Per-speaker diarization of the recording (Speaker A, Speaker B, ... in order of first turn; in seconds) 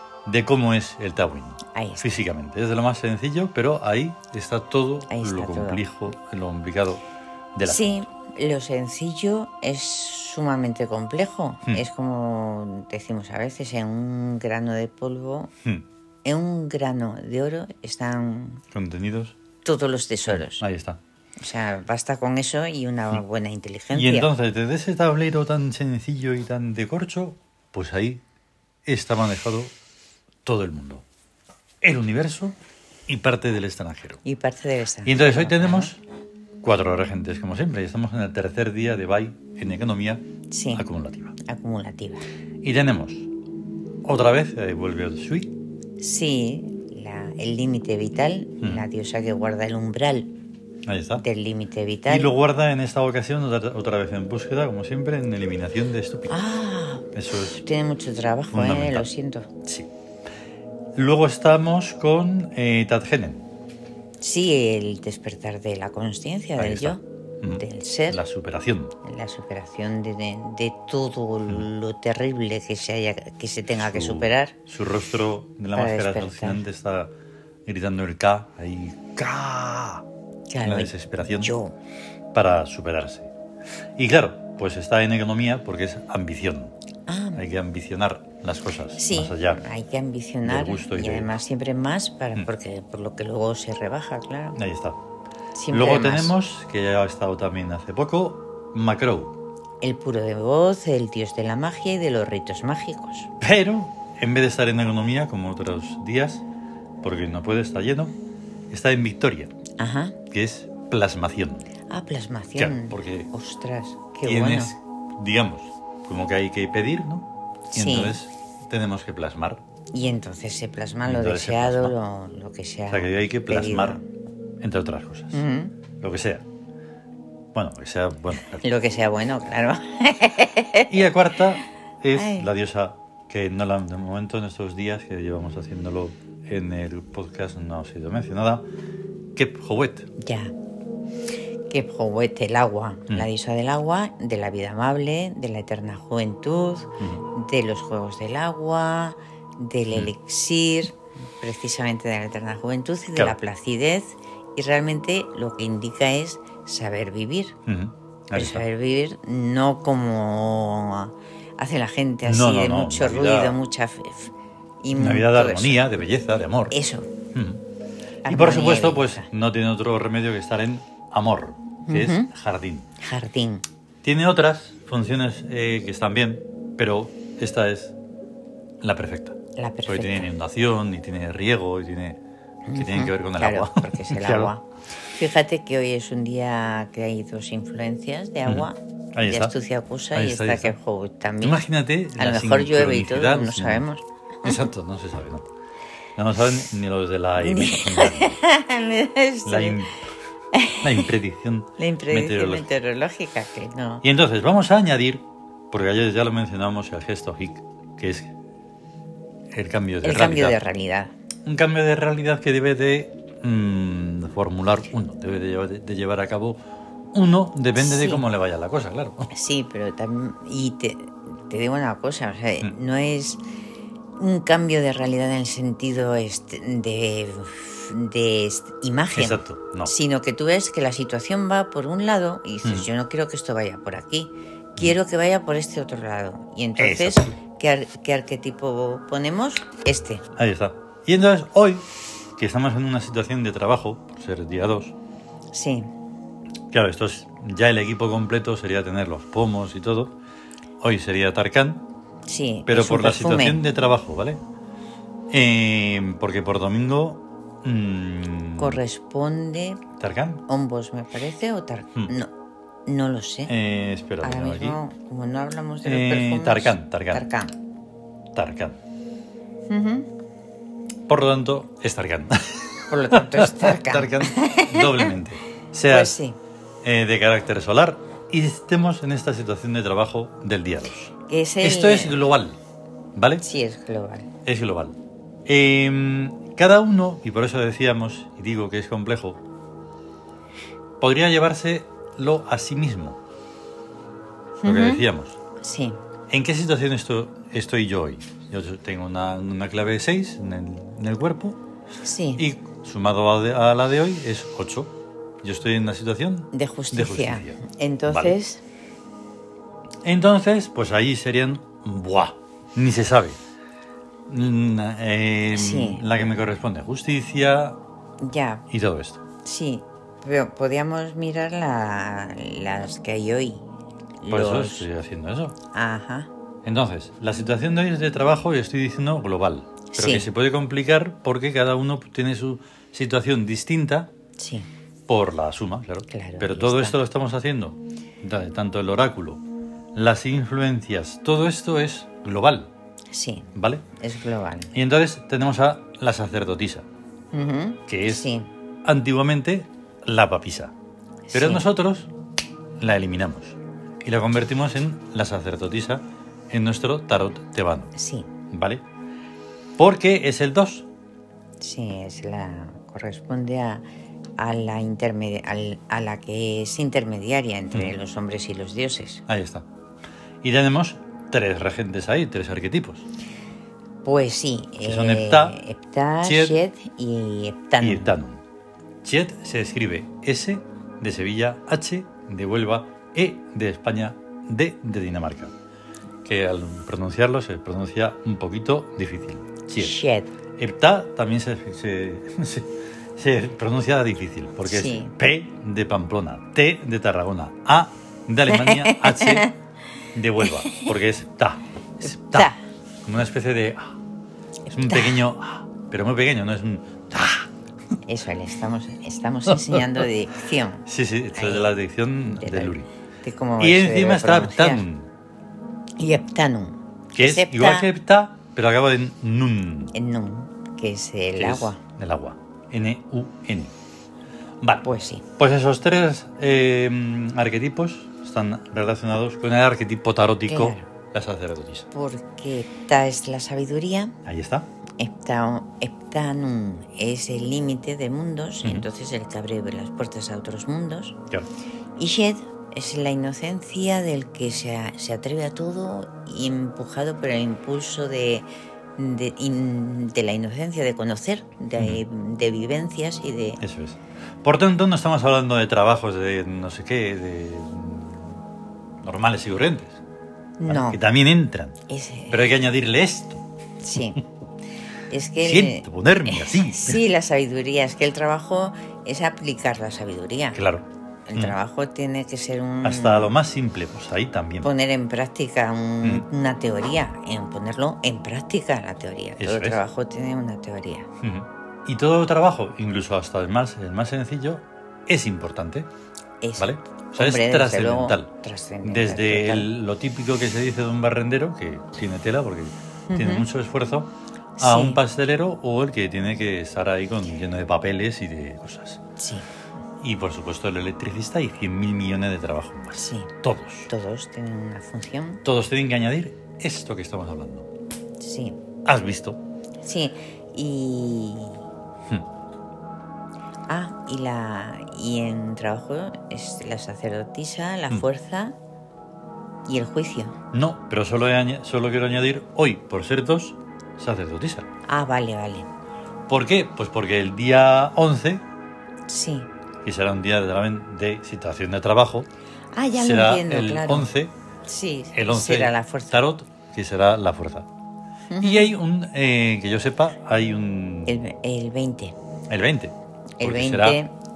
Speaker A: 0.2-7.0, 7.5-8.0, 18.7-19.4, 20.3-21.0, 23.9-28.2, 28.8-29.7, 30.4-31.0, 31.8-32.5, 33.1-34.2, 35.0-36.0, 36.6-40.2, 40.7-41.3, 42.6-43.3, 44.0-45.5, 50.9-51.2, 52.1-56.4, 57.1-57.6, 58.5-59.1, 61.0-63.5, 66.6-68.9, 73.7-77.1, 77.7-80.0, 80.6-81.5, 82.3-83.3, 84.0-86.7, 87.3-89.6, 90.4-91.4, 94.5-95.0, 95.7-99.3, 103.4-106.4, 107.0-108.1, 108.7-109.5, 110.3-111.7, 112.6-113.3, 114.2-119.6, 121.0-122.0, 122.9-124.0, 124.6-125.4, 126.0-126.4, 127.5-128.6, 130.9-138.7, 139.3-140.1, 157.7-158.6, 162.2-163.6, 164.9-166.7, 167.3-167.6, 168.3-172.8, 174.0-177.9, 178.8-182.2, 182.7-184.5, 188.4-189.5, 190.1-190.8, 191.4-193.9, 194.4-195.5, 196.2-198.4, 199.4-199.9, 200.8-202.7, 204.0-208.3, 209.5-210.6, 211.4-216.6, 217.1-219.3, 229.2-229.9, 236.8-237.3, 240.3-241.8, 242.4-244.9, 246.7-250.1, 250.8-251.8, 252.7-254.4, 255.3-258.8, 260.0-260.4, 263.5-264.8, 265.8-267.2, 268.3-268.8, 271.1-276.1, 276.8-281.0, 281.6-282.6, 283.1-283.4, 284.4-289.4, 291.0-293.2, 294.6-295.4, 296.3-301.6, 302.4-308.4, 310.0-313.4, 314.3-317.8, 318.7-319.2, 324.3-325.6, 326.6-334.1, 335.1-339.4, 339.9-342.7, 343.5-343.8, 344.7-346.9, 347.9-348.3, 348.8-350.7, 351.3-352.1, 352.8-357.9, 358.5-358.8, 359.8-360.9, 369.3-369.6, 370.4-373.0, 374.8-375.6, 376.2-376.6, 377.8-378.4, 379.0-385.5, 386.2-390.0, 390.6-399.5, 400.1-402.5, 403.0-404.0, 404.7-407.5, 409.5-410.0, 410.9-412.9, 413.6-415.1, 417.1-419.9, 421.4-423.7, 424.6-424.9, 425.4-431.9, 434.2-434.7, 451.8-452.0, 453.6-458.4, 459.0-460.0, 460.7-461.8, 462.3-463.4, 465.4-467.0, 470.5-470.8, 472.8-474.7, 479.4-479.8, 481.2-485.9, 486.6-488.3, 488.8-499.0, 500.0-503.9, 505.4-507.7, 508.9-509.4, 520.5-524.7, 526.3-528.4, 529.8-532.3, 532.9-534.3, 535.1-537.7, 538.4-541.2, 542.5-544.0
Speaker B: 1.7-2.2, 5.1-5.8, 7.6-15.5, 16.2-18.6, 19.6-20.6, 21.4-24.3, 34.2-35.9, 40.5-40.9, 41.4-42.2, 46.0-50.3, 51.2-52.3, 56.3-59.5, 64.2-68.2, 69.0-74.5, 75.7-76.6, 80.5-81.7, 87.1-87.4, 88.9-94.6, 95.5-96.3, 99.8-103.3, 109.8-110.2, 111.9-114.7, 117.7-118.2, 119.9-124.0, 125.3-125.8, 128.5-131.0, 132.1-132.5, 140.2-140.5, 141.7-157.6, 158.3-166.0, 166.7-167.1, 168.2-169.3, 171.8-172.3, 173.0-173.6, 179.6-180.3, 182.7-194.6, 197.4-199.8, 200.5-201.1, 201.8-204.0, 210.0-211.1, 217.8-218.2, 219.3-223.4, 224.2-240.2, 245.5-245.9, 252.3-253.6, 258.6-259.8, 260.5-262.3, 262.9-263.5, 264.2-267.5, 269.7-270.1, 272.9-275.1, 275.9-276.4, 281.3-282.2, 283.4-284.3, 294.6-295.0, 295.6-296.0, 302.0-302.4, 306.5-308.6, 315.5-316.3, 318.2-318.6, 319.4-323.6, 324.2-324.9, 325.7-326.3, 329.9-330.3, 334.4-334.7, 336.1-337.0, 343.1-344.7, 347.3-348.5, 351.3-351.6, 357.9-358.3, 361.6-363.8, 364.4-369.2, 374.0-378.1, 389.8-390.3, 394.7-395.1, 398.5-399.5, 400.4-400.9, 402.0-402.6, 404.6-405.2, 408.1-411.7, 412.3-414.8, 416.0-417.9, 419.9-421.8, 424.8-425.2, 430.5-430.9, 431.9-434.1, 435.0-441.1, 442.0-448.4, 449.0-453.6, 460.6-461.0, 461.9-462.5, 463.8-464.2, 465.1-470.6, 471.3-473.4, 474.6-481.1, 486.4-489.7, 493.1-493.4, 494.6-495.0, 499.2-499.5, 503.0-503.3, 503.9-505.4, 508.2-508.6, 509.8-511.6, 513.7-518.5, 519.6-520.3, 524.9-525.7, 529.1-529.5, 532.7-534.1, 534.6-536.2, 538.3-538.7, 541.1-542.1, 543.4-544.1